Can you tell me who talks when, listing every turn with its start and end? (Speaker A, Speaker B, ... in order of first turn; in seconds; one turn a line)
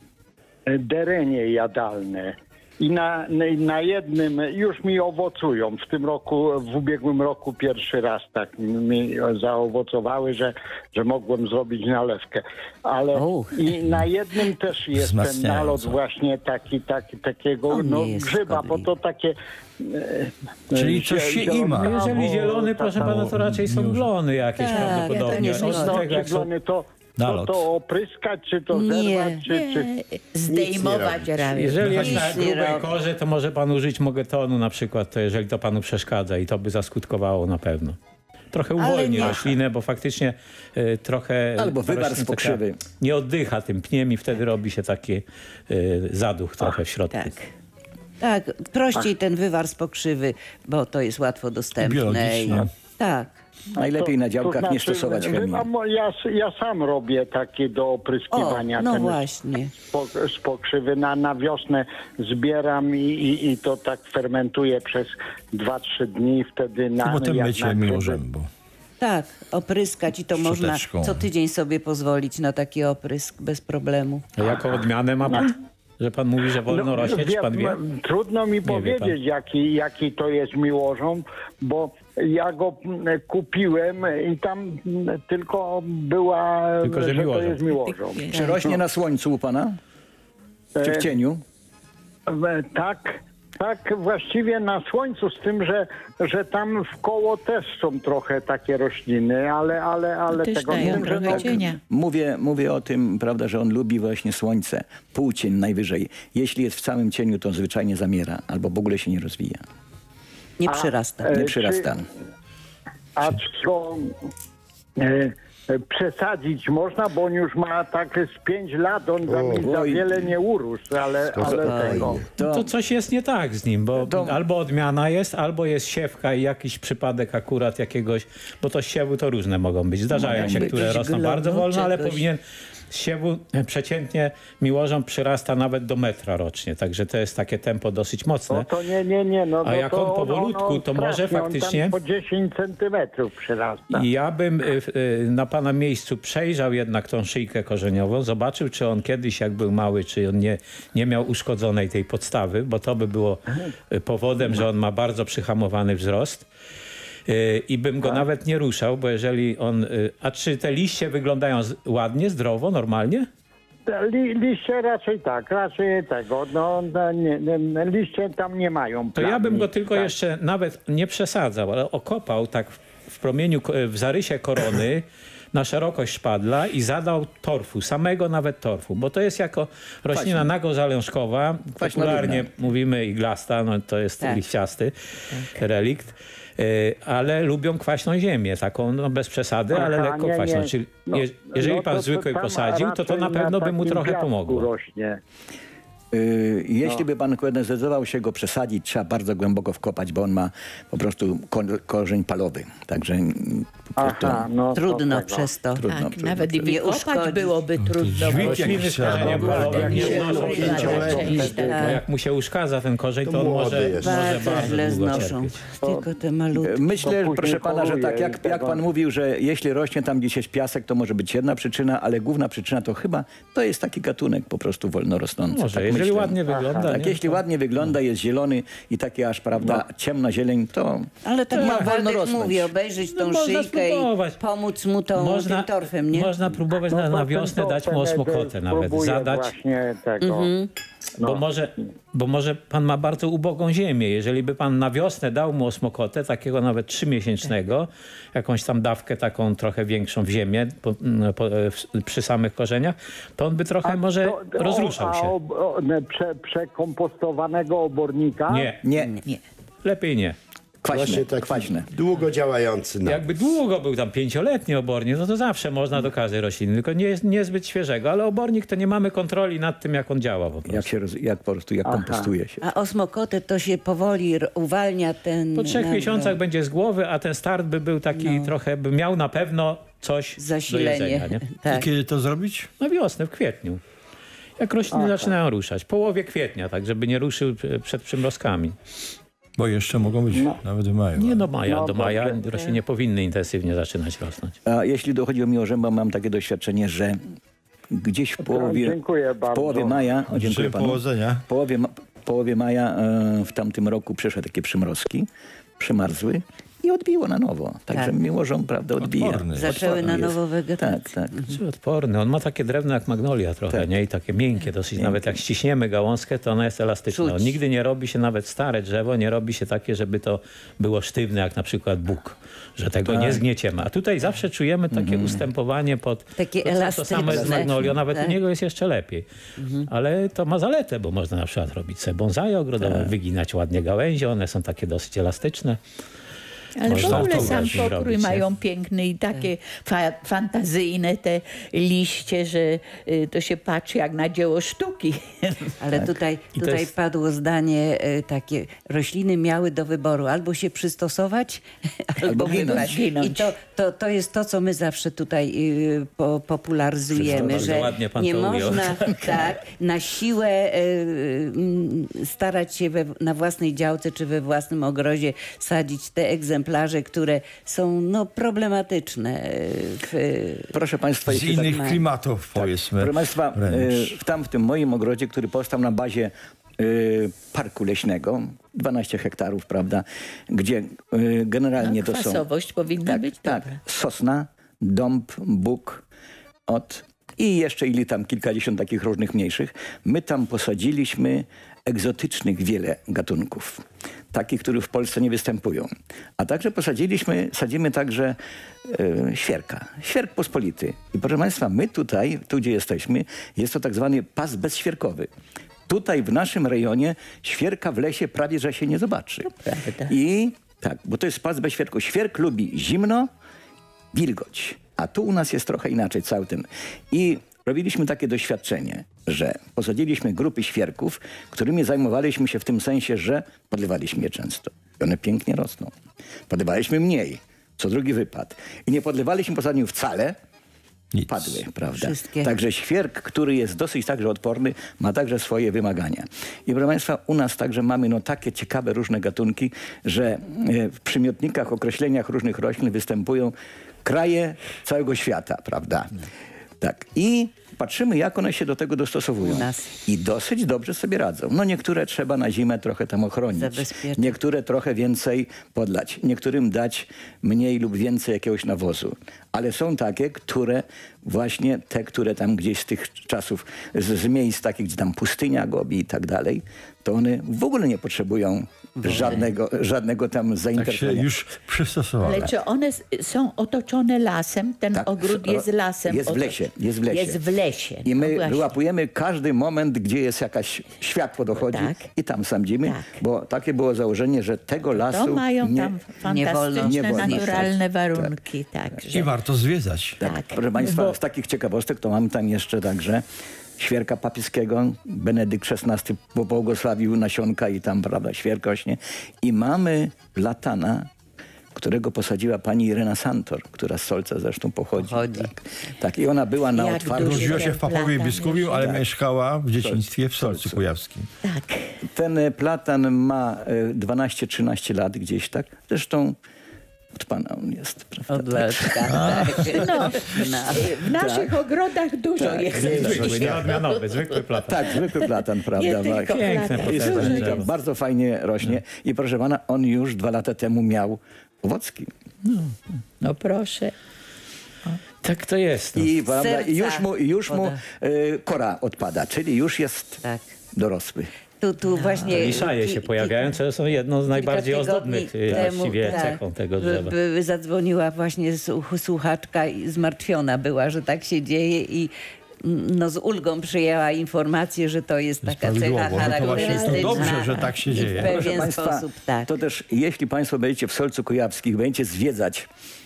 Speaker A: 0.7-23.3
Speaker B: 13.1-13.6
Speaker C: 14.9-16.0
Speaker B: 17.7-18.9
Speaker C: 20.7-21.9
Speaker D: 21.8-26.5
Speaker C: 23.0-24.1
Speaker B: 24.6-26.0
Speaker A: 24.7-29.9
Speaker C: 27.2-27.6
Speaker B: 28.7-29.4
Speaker E: 29.5-32.2
Speaker F: 30.5-31.5
Speaker D: 31.5-38.0
Speaker C: 31.8-32.3
Speaker B: 31.9-32.9
Speaker D: 38.5-47.3
Speaker B: 38.8-39.6
Speaker G: 41.6-42.8
Speaker E: 47.1-47.5
Speaker B: 48.2-53.4
Speaker C: 51.8-52.7
Speaker G: 53.8-55.7
Speaker A: 53.8-59.3
Speaker B: 58.3-59.7
Speaker A: 59.9-68.2
Speaker C: 67.0-68.5
Speaker B: 69.0-74.3
Speaker C: 70.3-71.2
Speaker D: 74.3-77.8
Speaker A: 75.2-75.5
Speaker A: 76.7-88.8
Speaker D: 78.6-79.1
Speaker D: 86.8-87.7
Speaker E: 87.7-88.3
Speaker G: 88.3-89.8
Speaker A: 90.8-91.1
Speaker G: 90.8-91.4
Speaker A: 92.3-101.6
Speaker E: 100.3-101.8
Speaker G: 100.7-109.6
Speaker B: 110.6-111.3
Speaker A: 110.7-111.9
Speaker G: 111.3-112.0
Speaker A: 113.2-114.1
Speaker A: 115.0-122.2
Speaker F: 119.2-119.7
Speaker G: 119.6-120.1
Speaker F: 121.3-122.2
Speaker G: 121.4-122.7
Speaker B: 121.5-122.0
Speaker D: 122.4-132.4
Speaker G: 124.0-124.4
Speaker G: 130.1-132.2
Speaker D: 132.9-138.7
Speaker A: 138.5-144.1
Speaker D: 139.6-141.9
Speaker D: 143.9-156.5
Speaker D: 157.3-163.3
Speaker A: 163.9-170.1
Speaker D: 169.1-194.7
Speaker G: 180.1-180.5
Speaker G: 181.8-182.5
Speaker B: 184.2-184.4
Speaker A: 189.7-195.2
Speaker G: 196.1-204.5
Speaker A: 203.9-205.5
Speaker B: 204.7-205.8
Speaker G: 205.8-206.8
Speaker E: 205.9-211.7
Speaker B: 206.6-207.6
Speaker C: 207.8-211.3
Speaker D: 208.3-215.6
Speaker A: 209.1-211.9
Speaker B: 209.9-212.0
Speaker F: 210.6-211.3
Speaker F: 213.2-215.1
Speaker B: 213.9-216.8
Speaker A: 215.8-216.1
Speaker G: 216.5-232.7
Speaker A: 217.0-218.8
Speaker D: 225.5-227.4
Speaker A: 226.5-226.8
Speaker B: 231.2-236.4
Speaker D: 231.5-231.9
Speaker D: 233.0-234.4
Speaker D: 235.1-239.5
Speaker A: 236.9-240.5
Speaker B: 240.2-240.7
Speaker A: 241.2-241.4
Speaker D: 241.2-255.3
Speaker A: 253.8-258.7
Speaker D: 258.5-258.8
Speaker G: 258.8-259.2
Speaker D: 259.8-260.4
Speaker G: 260.8-261.9
Speaker F: 260.9-263.2
Speaker D: 263.0-270.9
Speaker G: 270.7-272.6
Speaker A: 271.8-272.3
Speaker B: 272.6-276.4
Speaker D: 275.5-281.4
Speaker B: 278.1-278.5
Speaker B: 280.4-281.9
Speaker C: 281.7-282.7
Speaker D: 282.8-283.8
Speaker D: 284.6-288.8
Speaker A: 284.9-285.3
Speaker C: 289.6-291.4
Speaker A: 290.3-290.6
Speaker D: 291.1-294.6
Speaker A: 291.6-292.8
Speaker G: 294.6-297.2
Speaker G: 297.9-299.0
Speaker A: 298.4-300.2
Speaker G: 299.5-305.3
Speaker C: 300.3-301.4
Speaker G: 305.8-311.5
Speaker B: 307.9-308.1
Speaker C: 309.0-309.9
Speaker B: 309.5-311.6
Speaker D: 311.5-329.2
Speaker G: 315.0-315.4
Speaker B: 317.1-317.5
Speaker G: 323.1-323.4
Speaker G: 324.9-325.4
Speaker B: 326.4-328.4
Speaker G: 327.2-327.9
Speaker B: 329.6-329.9
Speaker D: 329.9-335.8
Speaker G: 332.8-333.1
Speaker E: 336.8-345.7
Speaker D: 336.9-338.4
Speaker G: 336.9-337.8
Speaker B: 345.8-370.7
Speaker D: 346.6-346.9
Speaker G: 352.2-353.0
Speaker E: 352.2-353.5
Speaker G: 357.1-357.7
Speaker D: 357.2-358.9
Speaker G: 359.0-359.3
Speaker G: 370.7-371.9
Speaker C: 371.2-374.1
Speaker B: 371.4-372.0
Speaker G: 372.5-382.5
Speaker E: 381.8-383.8
Speaker G: 383.0-386.0
Speaker G: 386.7-405.3
Speaker G: 405.9-413.3
Speaker E: 409.6-410.1
Speaker G: 414.1-425.9
Speaker G: 426.5-430.4
Speaker C: 431.1-431.6
Speaker G: 431.3-446.2
Speaker B: 431.9-432.5
Speaker G: 446.8-471.3
Speaker B: 449.4-449.9
Speaker B: 453.5-454.4
Speaker B: 469.0-469.4
Speaker C: 470.7-472.5
Speaker E: 472.2-478.7
Speaker G: 474.9-477.4
Speaker G: 478.0-485.9
Speaker E: 481.5-482.1
Speaker E: 482.8-483.2
Speaker E: 484.9-489.3
Speaker B: 486.2-487.8
Speaker G: 486.7-488.3
Speaker C: 489.1-490.2
Speaker G: 490.2-493.2
Speaker E: 490.2-490.6
Speaker D: 490.8-491.1
Speaker G: 493.8-501.1
Speaker G: 501.7-509.0
Speaker B: 504.9-505.5
Speaker E: 506.7-508.9
Speaker C: 507.1-511.3
Speaker G: 509.8-510.8
Speaker E: 511.4-511.9
Speaker G: 512.1-516.4
Speaker G: 517.1-520.1
Speaker B: 518.3-520.9
Speaker C: 519.1-520.1
Speaker E: 519.7-524.2
Speaker G: 520.7-521.7
Speaker G: 522.4-523.7
Speaker D: 522.9-524.8
Speaker G: 524.6-532.1
Speaker E: 525.2-527.6
Speaker D: 526.3-527.6
Speaker D: 532.4-532.8
Speaker E: 533.2-533.9
Speaker D: 535.2-536.1
Speaker G: 535.9-540.2
Speaker B: 536.2-537.8
Speaker B: 540.2-540.5
Speaker G: 540.7-541.3
Speaker B: 541.6-543.5
Speaker E: 542.0-542.5
Speaker D: 542.3-547.1
Speaker B: 544.3-559.5
Speaker C: 555.4-558.6
Speaker E: 556.2-557.7
Speaker G: 558.0-562.7